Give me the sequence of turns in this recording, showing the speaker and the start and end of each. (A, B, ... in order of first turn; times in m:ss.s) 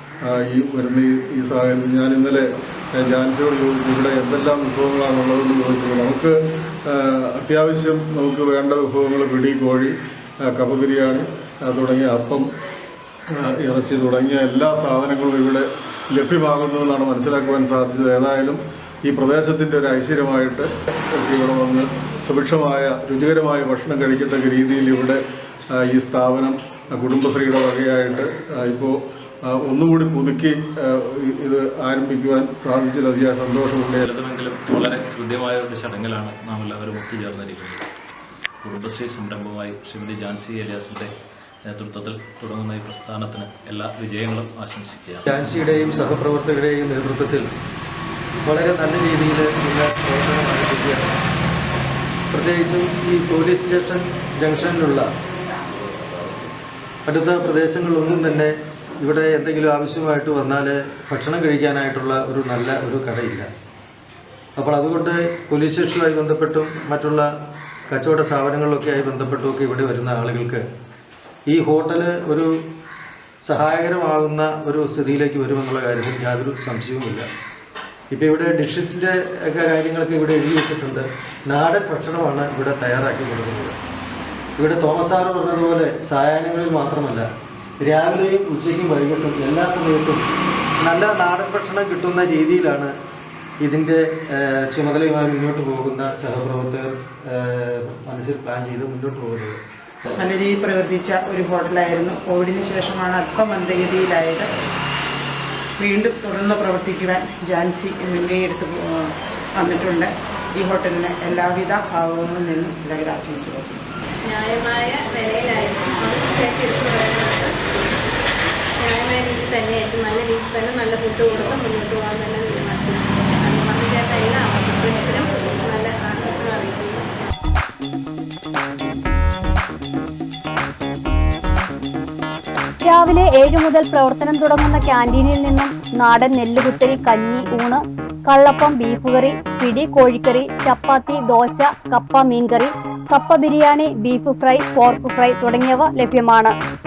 0:00.2-0:09.9 A
0:10.5-0:12.5 A
0:13.3-0:25.2 A
0:25.8-0:34.0 A
0:34.0-0:37.8 B
0:38.6-0:41.1 B
0:41.6-0:45.4 B
0:45.3-0:47.5 C
0:48.4-0:51.1 C
0:52.3-0:55.1 C
0:57.1-1:03.5 C
1:04.6-1:07.3 C
1:07.9-1:10.6 C
1:11.5-1:12.5 C
1:13.4-1:17.3 C
1:18.1-1:23.8 C
1:24.6-1:27.3 C
1:27.8-1:30.2 C
1:30.8-1:32.9 C
1:33.6-1:39.6 C
1:40.2-1:44.5 D
1:45.8-1:53.8 D
1:54.3-1:57.5 E
1:58.8-2:07.1 E
2:12.8-2:26.5 F